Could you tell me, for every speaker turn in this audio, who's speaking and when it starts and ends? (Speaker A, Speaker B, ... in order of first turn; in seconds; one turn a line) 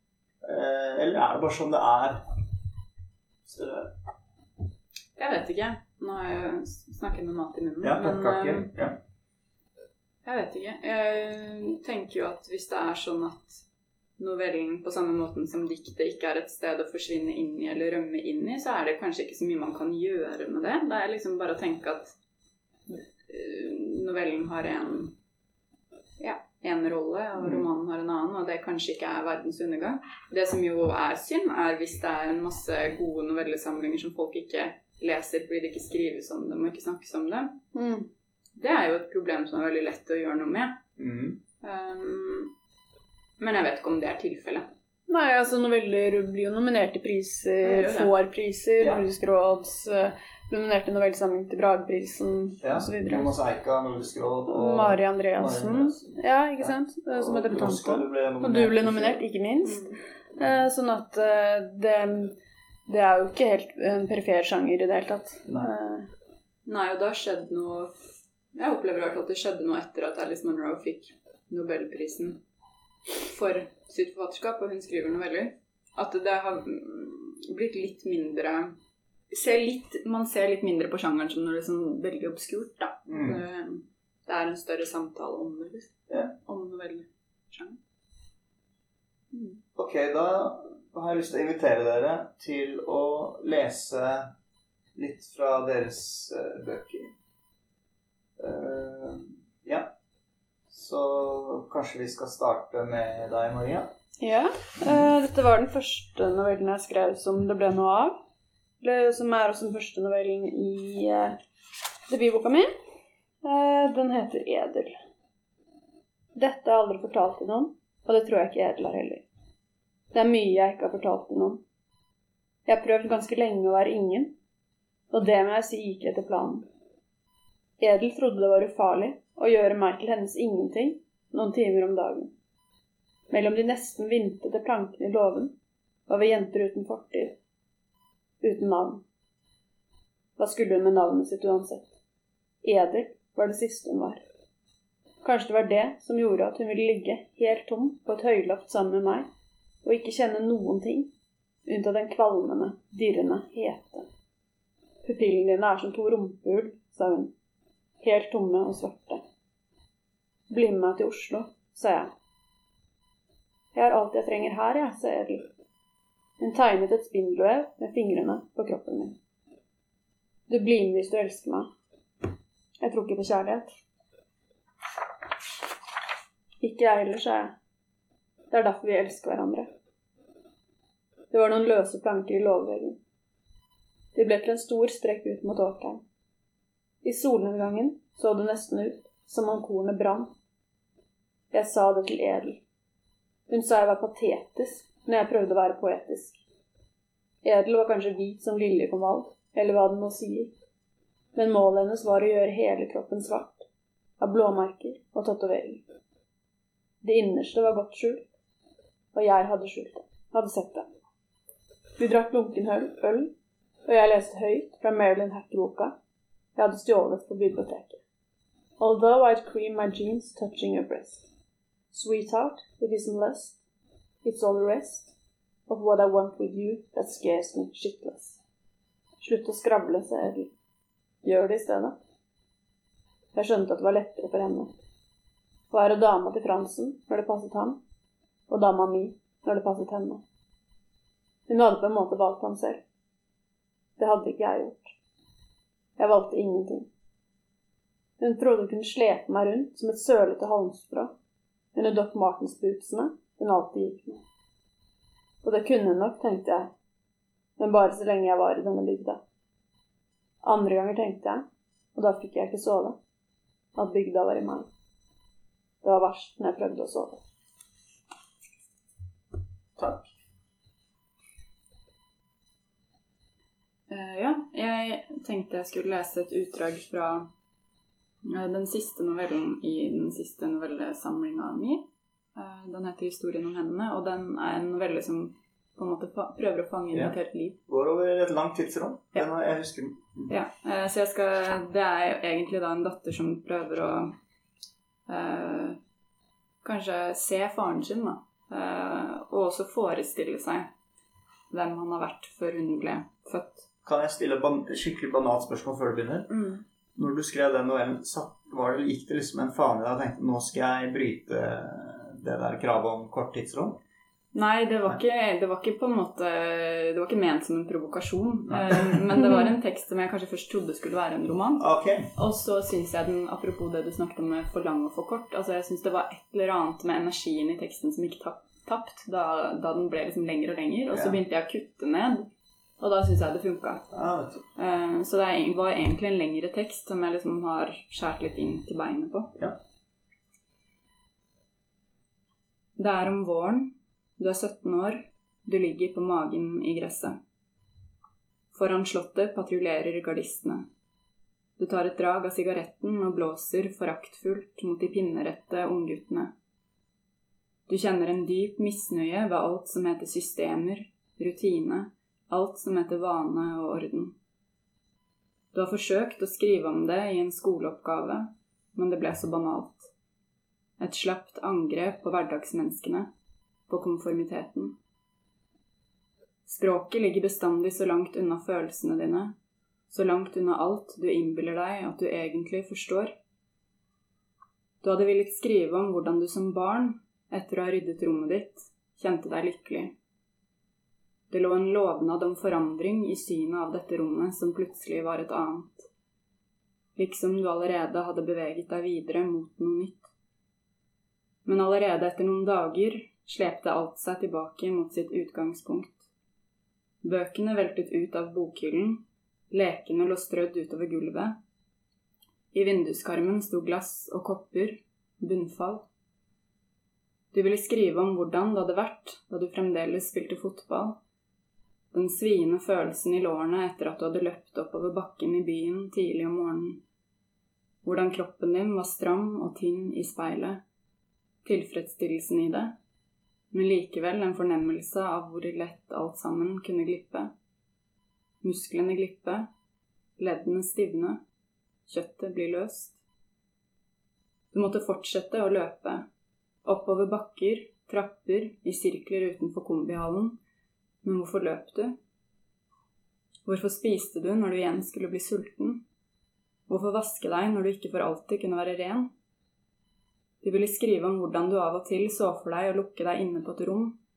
Speaker A: 0.4-2.2
Speaker A: 3.5-3.9
Speaker B: 5.2-8.7
Speaker A: 7.8-9.0
Speaker B: 10.2-13.6
Speaker B: 14.2-22.1
Speaker B: 22.9-25.1
Speaker B: 26.2-37.6
Speaker A: 27.4-27.7
Speaker C: 37.7-38.1
Speaker B: 38.5-40.8
Speaker A: 41.0-41.4
Speaker B: 41.6-42.5
Speaker B: 43.4-44.7
Speaker C: 45.1-53.3
Speaker B: 47.6-48.1
Speaker A: 48.8-49.0
Speaker A: 52.6-59.2
Speaker C: 54.5-62.4
Speaker B: 59.6-60.0
Speaker A: 60.4-60.6
Speaker C: 62.9-66.1
Speaker B: 66.7-67.9
Speaker B: 68.5-72.4
Speaker B: 73.2-78.8
Speaker B: 79.3-85.9
Speaker A: 83.1-83.4
Speaker B: 86.4-87.8
Speaker B: 89.3-89.6
Speaker A: 89.8-94.3
Speaker A: 95.0-97.1
Speaker A: 98.4-100.0
Speaker A: 100.7-103.9
Speaker C: 104.2-108.2
Speaker C: 108.8-111.4
Speaker C: 112.1-112.7
Speaker C: 113.4-114.9
Speaker C: 116.4-119.3
Speaker C: 120.1-121.6
Speaker C: 122.7-124.3
Speaker C: 125.1-126.7
Speaker C: 127.8-132.3
Speaker C: 133.3-135.5
Speaker C: 136.1-137.4
Speaker C: 138.4-139.0
Speaker C: 140.4-141.9
Speaker C: 142.6-144.2
Speaker C: 145.2-149.3
Speaker C: 149.8-151.1
Speaker C: 151.7-154.1
Speaker C: 155.0-157.3
Speaker C: 158.0-159.2
Speaker C: 160.5-162.1
Speaker C: 163.7-165.5
Speaker C: 166.4-169.2
Speaker C: 170.5-171.7
Speaker C: 172.8-173.7
Speaker C: 176.6-177.6
Speaker C: 178.5-179.7
Speaker C: 181.3-183.0
Speaker C: 184.2-186.0
Speaker C: 187.0-190.3
Speaker C: 191.5-192.6
Speaker C: 193.5-196.4
Speaker C: 197.4-200.5
Speaker C: 201.3-203.7
Speaker C: 204.2-205.8
Speaker C: 207.0-208.3
Speaker C: 209.1-210.9
Speaker C: 212.0-213.3
Speaker C: 213.9-216.0
Speaker C: 216.6-218.0
Speaker C: 218.8-221.3
Speaker C: 221.9-223.6
Speaker C: 224.2-225.1
Speaker C: 225.7-228.4
Speaker C: 229.2-230.5
Speaker C: 231.2-232.0
Speaker C: 233.3-234.7
Speaker C: 235.7-237.8
Speaker C: 238.5-240.2
Speaker C: 241.5-242.8
Speaker C: 244.0-245.0
Speaker C: 246.0-246.9
Speaker C: 248.2-251.1
Speaker C: 251.7-254.2
Speaker C: 255.4-256.7
Speaker C: 257.6-259.2
Speaker C: 260.4-263.0
Speaker C: 263.8-264.7
Speaker C: 265.8-267.2
Speaker A: 269.8-270.1
Speaker B: 273.9-277.3
Speaker B: 278.2-287.6
Speaker A: 287.7-290.4
Speaker B: 290.3-294.1
Speaker B: 295.1-295.8
Speaker B: 296.6-300.7
Speaker B: 301.5-303.7
Speaker A: 303.8-306.3
Speaker B: 306.3-306.6
Speaker A: 307.0-313.8
Speaker B: 314.3-332.3
Speaker A: 318.5-319.2
Speaker A: 321.6-322.1
Speaker A: 330.9-331.2
Speaker B: 332.8-333.9
Speaker A: 333.9-334.4
Speaker B: 334.6-339.4
Speaker B: 342.8-347.2
Speaker B: 348.5-350.7
Speaker B: 351.6-356.3
Speaker B: 357.7-364.1
Speaker B: 365.5-369.9
Speaker B: 370.8-373.1
Speaker B: 373.7-374.8
Speaker B: 376.4-379.4
Speaker B: 379.9-383.1
Speaker B: 384.8-389.9
Speaker B: 391.3-395.9
Speaker B: 397.0-400.1
Speaker B: 401.4-406.1
Speaker B: 407.0-411.4
Speaker B: 412.5-415.9
Speaker B: 417.3-421.0
Speaker B: 421.9-426.8
Speaker B: 427.8-430.6
Speaker B: 431.4-432.8
Speaker B: 433.5-437.3
Speaker B: 438.4-439.5
Speaker B: 440.2-441.2
Speaker B: 441.9-443.0
Speaker B: 444.5-446.1
Speaker B: 446.6-450.4
Speaker B: 451.0-452.0
Speaker B: 453.4-455.8
Speaker B: 456.7-459.1
Speaker B: 460.4-464.0